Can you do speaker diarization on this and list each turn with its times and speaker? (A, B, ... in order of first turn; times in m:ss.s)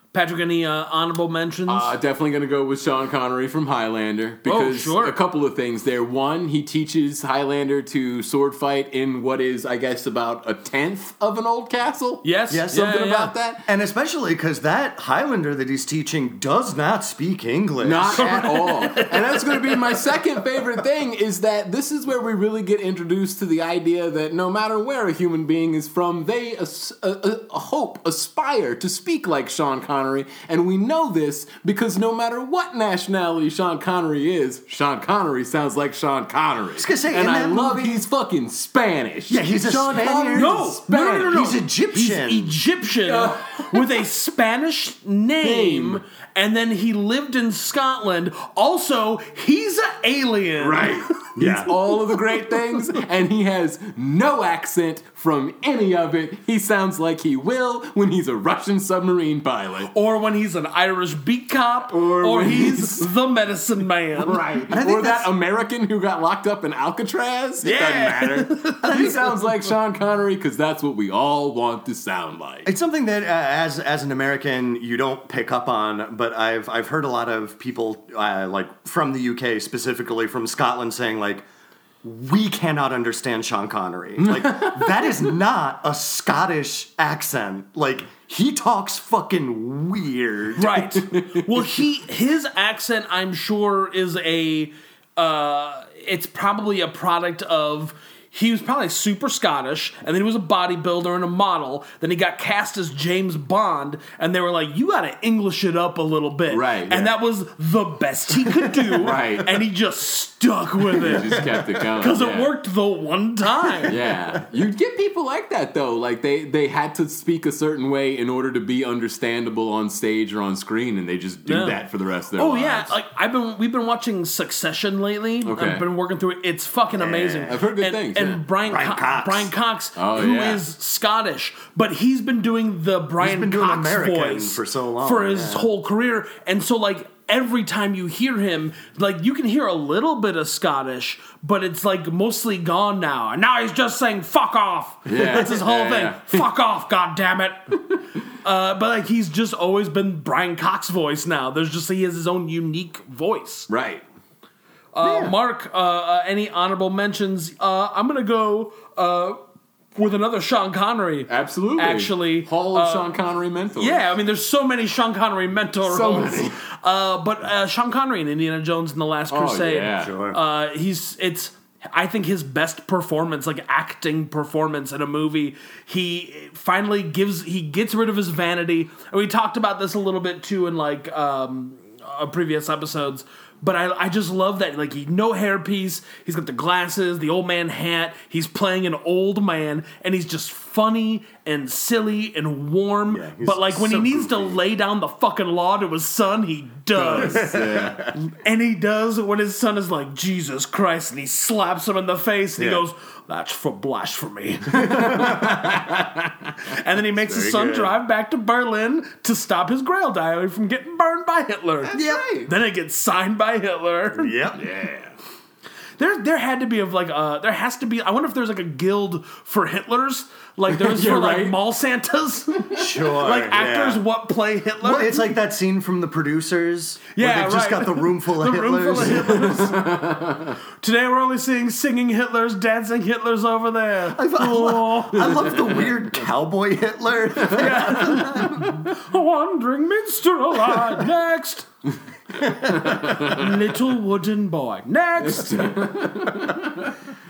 0:00.1-0:01.9 A
0:01.7-0:13.6 B
0:04.4-0:05.2 A
0:12.2-0:13.3 A
0:12.5-0:19.0 C
0:17.8-0:41.4 B
0:18.1-0:19.7 A
0:36.8-0:38.0 C
0:39.3-0:42.6 C
0:40.3-0:51.7 A
0:43.0-0:44.0 B
0:45.4-0:46.0 B
0:50.6-0:59.9 B
0:51.4-0:51.7 C
0:59.9-1:04.5 A
1:01.9-1:03.1 B
1:04.2-1:12.7 B
1:04.7-1:05.3 C
1:07.6-1:09.3 A
1:08.8-1:09.1 C
1:12.6-1:21.4 C
1:22.0-1:30.8 C
1:24.2-1:25.1 B
1:30.6-1:54.0 A
1:30.9-1:31.6 B
1:46.5-1:47.1 B
1:49.0-1:49.6 B
1:51.0-1:52.5 B
1:53.9-2:02.9 B
2:01.5-2:01.8 A
2:02.3-2:27.8 A
2:05.4-2:05.8 B
2:06.9-2:07.5 C
2:07.5-2:08.4 B
2:08.6-2:09.5 C
2:10.0-2:10.6 B
2:13.2-2:15.7 C
2:25.1-2:26.4 B
2:28.4-2:33.7 A
2:33.7-2:34.0 B
2:34.9-2:39.4 A
2:35.0-2:35.3 C
2:40.0-2:43.1 A
2:41.3-2:44.1 B
2:43.8-3:17.6 A
2:45.8-2:46.6 B
2:49.3-2:50.2 B
2:50.0-2:50.4 C
3:13.1-3:14.6 C
3:17.1-3:18.0 B
3:17.1-3:18.2 C
3:18.1-3:25.9 A
3:22.6-3:22.8 C
3:24.8-3:25.8 B
3:26.6-3:34.4 A
3:27.2-3:27.9 C
3:31.9-3:32.5 B
3:31.9-3:32.4 C
3:34.1-3:34.6 C
3:34.6-3:35.1 B
3:36.0-3:45.3 A
3:40.7-3:41.6 B
3:42.8-3:44.0 C
3:44.8-3:49.6 C
3:47.1-3:49.8 A
3:49.2-3:50.6 B
3:50.8-3:55.6 A
3:54.1-3:58.8 C
3:55.3-3:55.9 B
3:57.5-4:01.7 A
4:02.6-4:05.8 A
4:02.8-4:03.5 B
4:05.2-4:06.9 B